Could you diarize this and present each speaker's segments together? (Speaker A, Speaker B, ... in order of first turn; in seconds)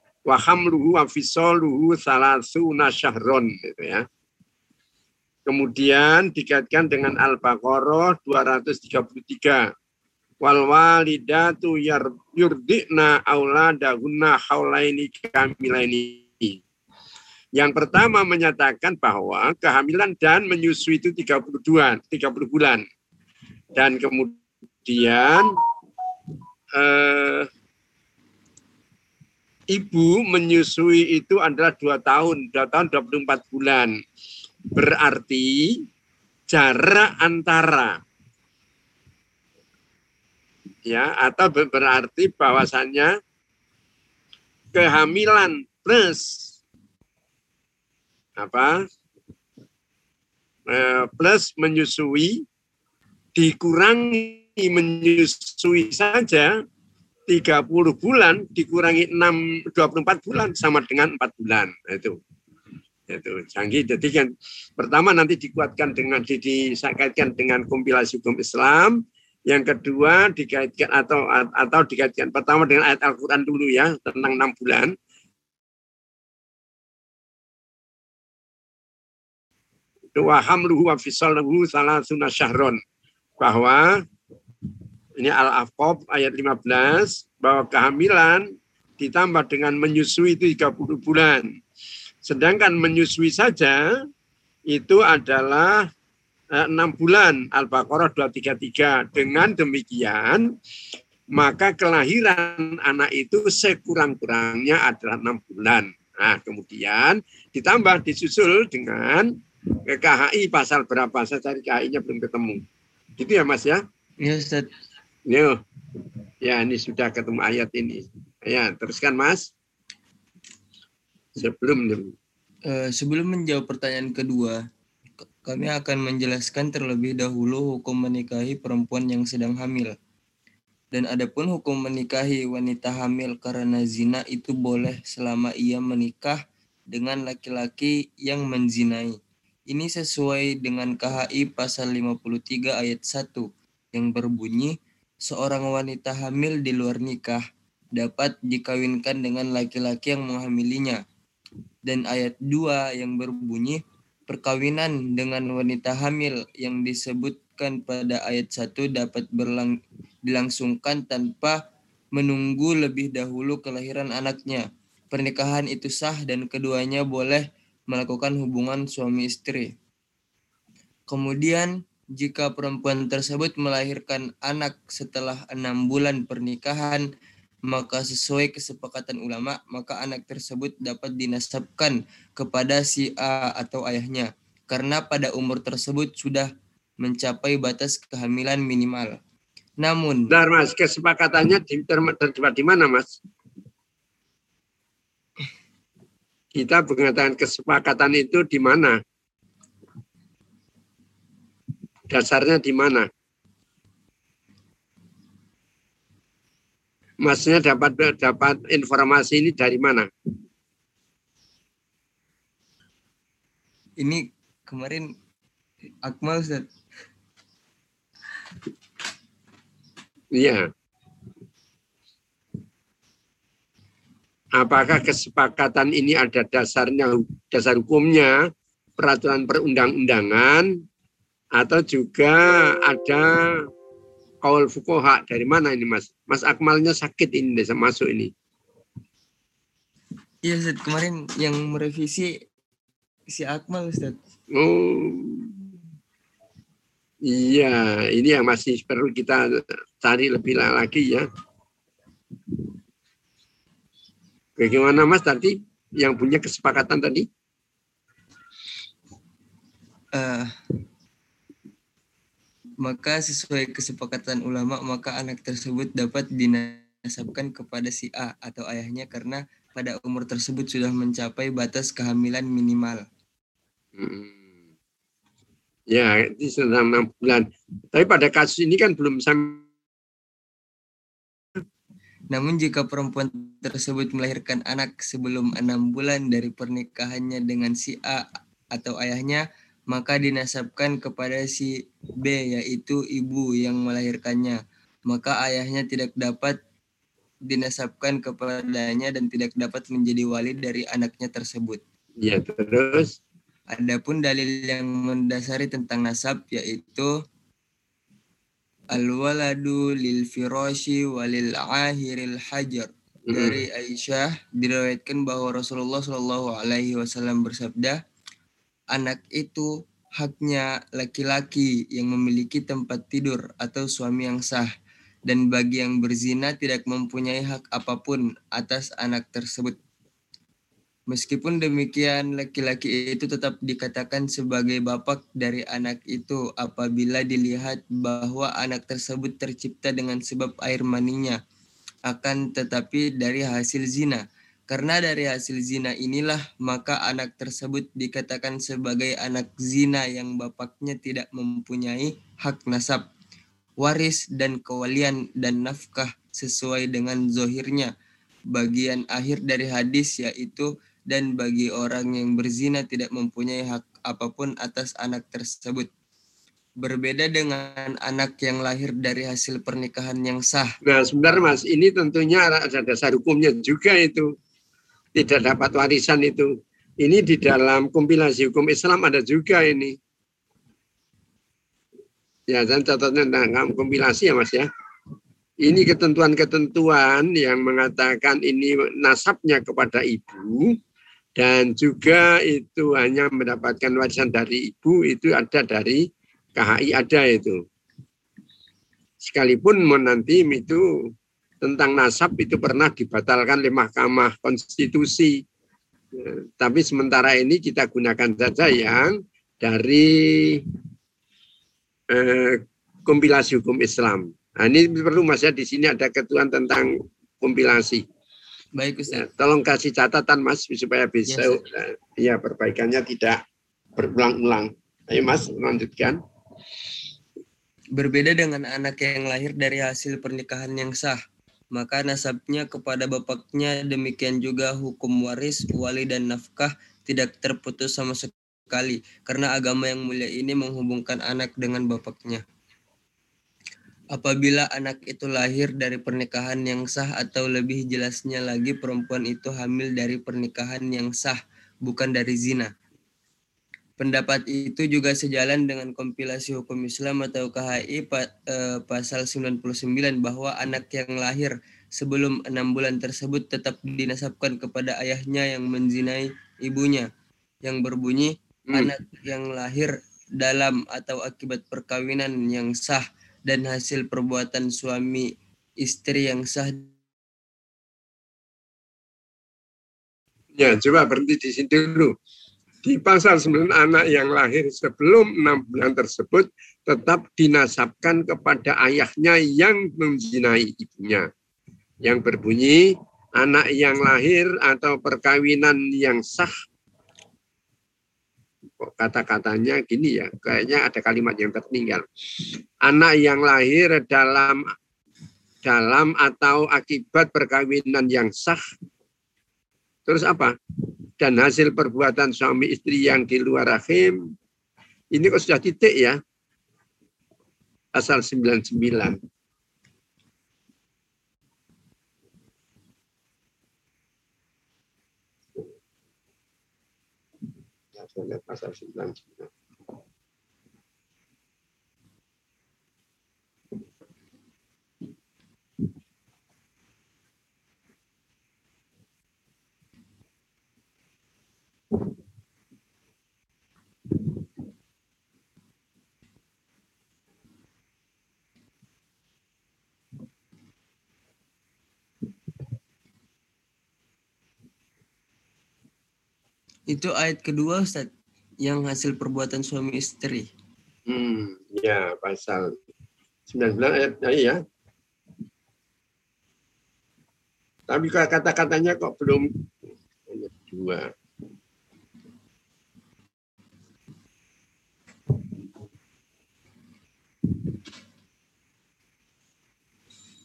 Speaker A: 0.2-4.0, 5.5-9.7, 10.4-16.6, 17.6-22.8, 23.7-25.5, 26.7-27.5, 29.7-33.9, 34.7-35.8, 36.5-38.0, 40.9-43.1, 44.7-46.5, 48.4-48.9, 50.7-52.4, 53.4-56.5, 57.3-62.2, 63.1-74.9, 80.1-82.8, 83.4-84.0, 85.2-91.5, 92.2-93.8, 94.7-95.9, 96.5-100.5, 101.3-112.6, 113.2-113.8, 115.3-115.6, 116.4-119.5, 121.3-122.1, 190.3-193.2, 196.6-199.0, 202.1-203.1, 207.2-210.1, 220.3-220.7, 224.6-228.4, 229.0-230.7, 231.6-233.4, 234.4-238.3, 244.5-245.6, 247.2-251.2, 254.6-257.3, 274.0-274.4, 275.9-279.6, 302.2-303.1, 313.3-313.6, 370.8-374.3, 375.1-379.9, 382.5-384.7, 385.6-390.8, 391.4-396.0, 396.6-397.6, 399.2-400.8, 401.6-405.4, 406.1-410.6, 412.1-416.9, 417.4-418.0, 419.1-423.4, 423.9-426.2, 480.5-482.1, 482.8-491.3, 492.0-496.5, 498.8-502.0, 502.8-504.6, 505.6-508.6, 510.1-510.5, 511.2-514.2, 515.1-516.2, 517.9-519.2, 528.0-529.5, 561.1-562.7, 563.5-564.6, 567.9-569.6, 570.3-571.1
Speaker B: 114.2-114.7, 122.7-124.6, 125.4-129.9, 130.9-139.2, 139.7-147.4, 147.9-151.0, 151.8-161.6, 162.1-169.7, 171.1-177.0, 177.7-186.5, 187.0-189.2, 189.8-190.3, 214.0-215.1, 216.0-216.7, 240.4-242.4, 243.3-244.2, 260.1-260.6, 262.8-273.1, 282.3-296.6, 297.4-301.8, 303.7-307.1, 308.9-318.0, 318.9-324.7, 325.3-329.8, 331.1-341.4, 342.1-353.1, 353.8-357.9, 358.5-365.9, 366.8-370.7, 418.7-419.2, 421.3-421.6, 427.9-431.2, 431.7-442.4, 444.1-452.7, 454.0-467.1, 467.6-476.9, 556.9-558.1, 558.6-560.5